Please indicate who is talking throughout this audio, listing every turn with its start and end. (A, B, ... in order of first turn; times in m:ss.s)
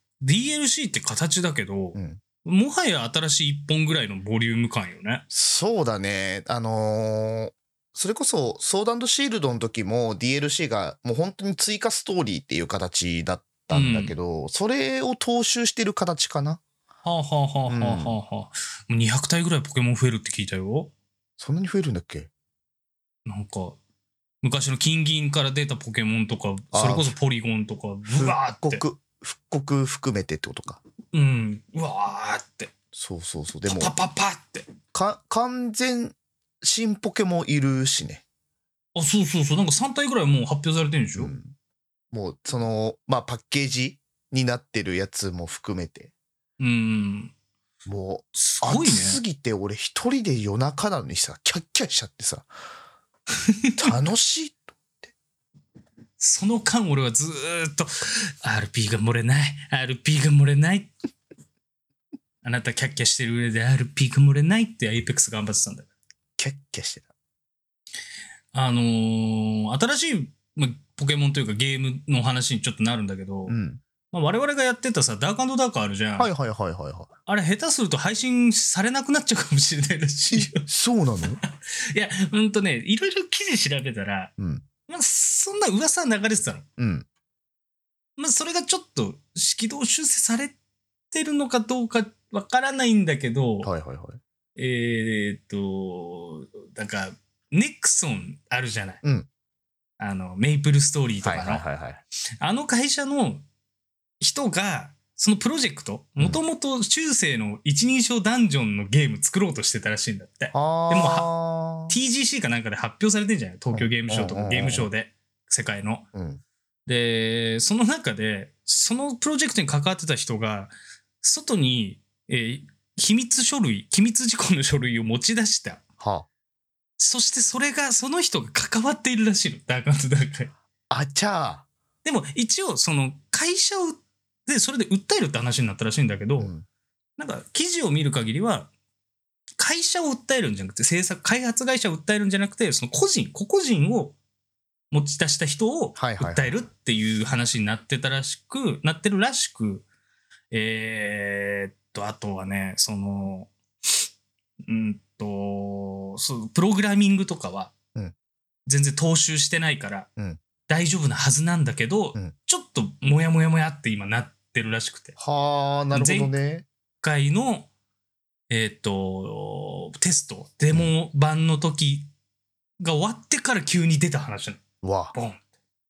0:00.2-0:05.2 A
0:01.9-0:02.2 B
0:05.3-0:16.6 B
0:13.7-0:14.1 A
0:17.0-0:20.9 A
0:17.7-0:18.2 B
0:21.4-0:22.3 B
0:23.2-0:23.8 A
0:24.4-0:28.8 A
0:26.7-0:27.1 B
0:28.1-0:30.8 B
0:31.1-0:32.7 A
0:32.9-0:33.9 B
0:33.6-0:34.7 A
0:34.9-0:38.2 B
0:38.9-0:41.3 A
0:41.2-0:41.5 B
0:42.1-0:46.1 B
0:46.6-0:47.3 A
0:47.8-0:52.5 B
0:48.3-0:49.2 A
0:53.8-0:55.1 B
0:56.2-1:00.9 A
1:02.4-1:05.9 A
1:06.4-1:07.1 B
1:08.5-1:13.6 A
1:13.5-1:13.8 B
1:14.1-1:16.3 A
1:16.2-1:17.1 B
1:17.3-1:20.6 A
1:20.3-1:21.4 B
1:21.7-1:24.3 A
1:24.4-1:24.6 B
1:24.9-1:26.6 A
1:26.8-1:27.1 B
1:28.2-1:30.6 A
1:31.1-1:33.7 A
1:33.6-1:34.2 B
1:34.6-1:39.0 A
1:39.0-1:39.3 B
1:40.0-1:41.6 A
1:41.2-1:42.0 B
1:42.4-1:43.4 A
1:44.2-1:51.3 A
1:50.5-1:52.0 B
1:51.9-1:56.1 A
1:53.7-1:54.9 B
1:56.1-1:56.4 B
1:56.8-2:05.8 A
2:06.0-2:06.3 B
2:07.0-2:10.5 A
2:10.9-2:11.7 B
2:12.0-2:16.5 A
2:16.4-2:16.6 B
2:17.2-2:18.7 A
2:19.6-2:24.2 A
2:24.9-2:29.8 A
2:26.0-2:26.6 B
2:30.5-2:33.5 A
2:34.6-2:37.7 A
2:38.7-2:40.1 A
2:40.7-2:45.2 A
2:45.2-2:46.6 B
2:45.9-2:46.4 A
2:47.0-2:47.7 A
2:48.5-2:52.1 A
2:52.8-2:55.4 A
2:54.8-2:55.1 B